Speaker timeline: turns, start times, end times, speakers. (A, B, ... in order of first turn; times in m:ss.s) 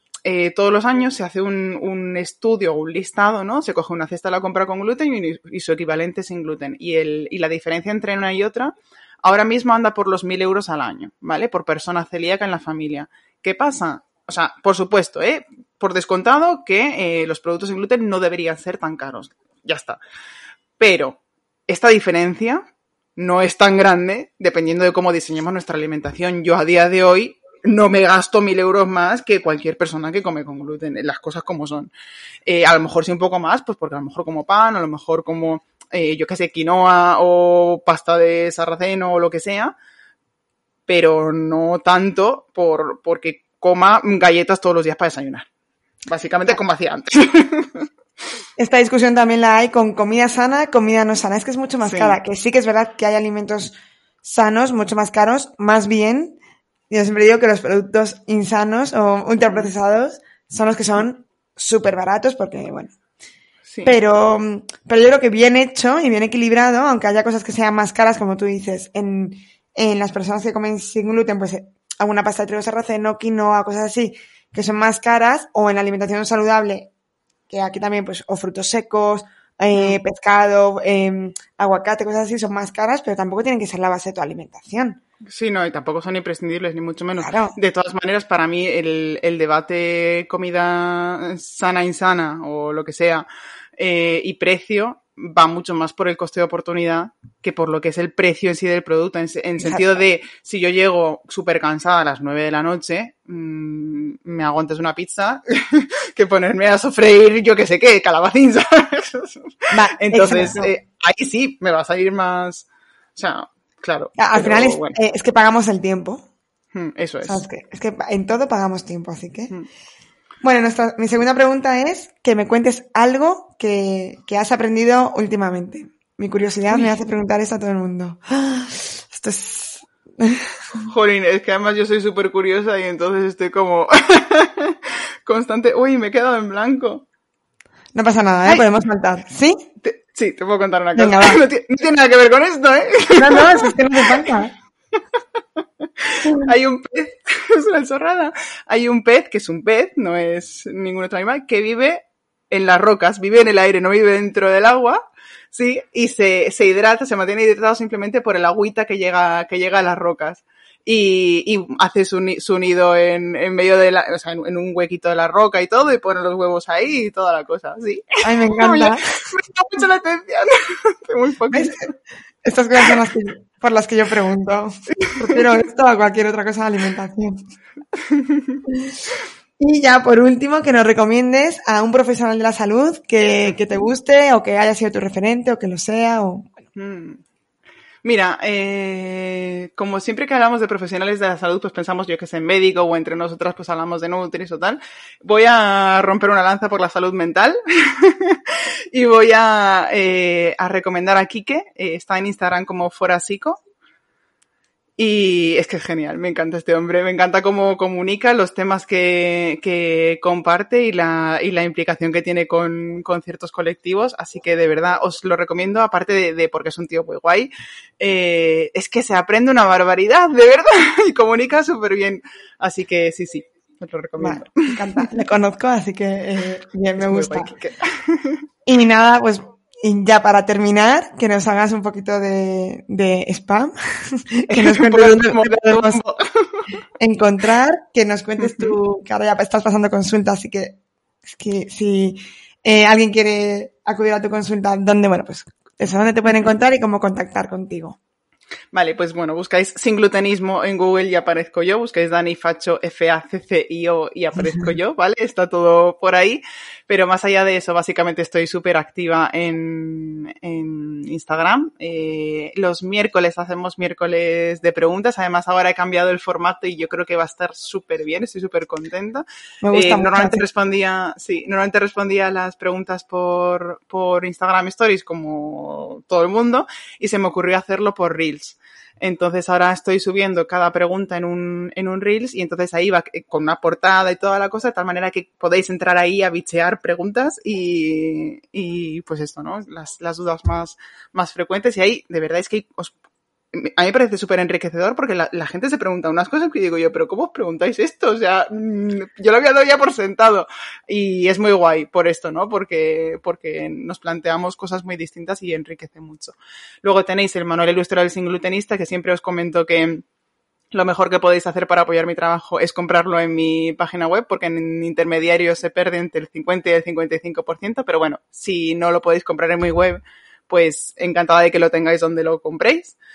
0:00.2-0:20.0 A
0:20.8-0:22.6 A
0:23.2-0:31.9 A
0:32.5-0:39.8 A
0:40.9-0:45.5 A
0:46.1-0:47.9 A
0:48.6-0:56.4 B
0:51.8-0:52.2 A
0:56.9-1:02.9 B
1:03.6-1:04.0 A
1:03.8-1:16.9 B
1:17.5-1:25.0 B
1:19.7-1:20.0 A
1:25.3-1:33.3 A
1:27.2-1:27.6 B
1:33.8-1:55.0 A
1:39.6-1:40.0 B
1:49.7-1:50.7 B
1:54.2-1:56.2 B
1:56.7-1:57.4 A
1:57.2-1:59.5 B
2:00.4-2:10.8 B
2:06.7-2:07.0 A
2:10.8-2:17.0 A
2:18.0-2:19.6 B
2:19.8-2:24.3 A
2:21.0-2:21.4 B
2:23.2-2:24.5 B
2:25.6-2:35.0 A
2:26.3-2:26.5 B
2:35.5-2:51.9 A
2:48.2-2:49.2 B
2:51.5-2:51.9 B
2:52.4-2:57.4 B
2:55.1-2:55.5 A
2:58.0-2:58.6 A
2:59.6-3:06.5 B
3:03.4-3:03.8 A
3:06.8-3:07.2 A
3:08.0-3:23.6 A
3:25.0-3:45.1 A
3:44.2-3:47.5 B
3:47.0-3:48.4 A
3:48.7-3:56.0 B
3:54.5-3:56.7 A
3:57.0-4:08.0 B
3:58.4-3:58.8 A
4:08.7-4:53.0 A
4:14.4-4:14.7 B
4:29.6-4:30.4 B
4:53.5-5:10.0 A
5:10.7-5:23.0 A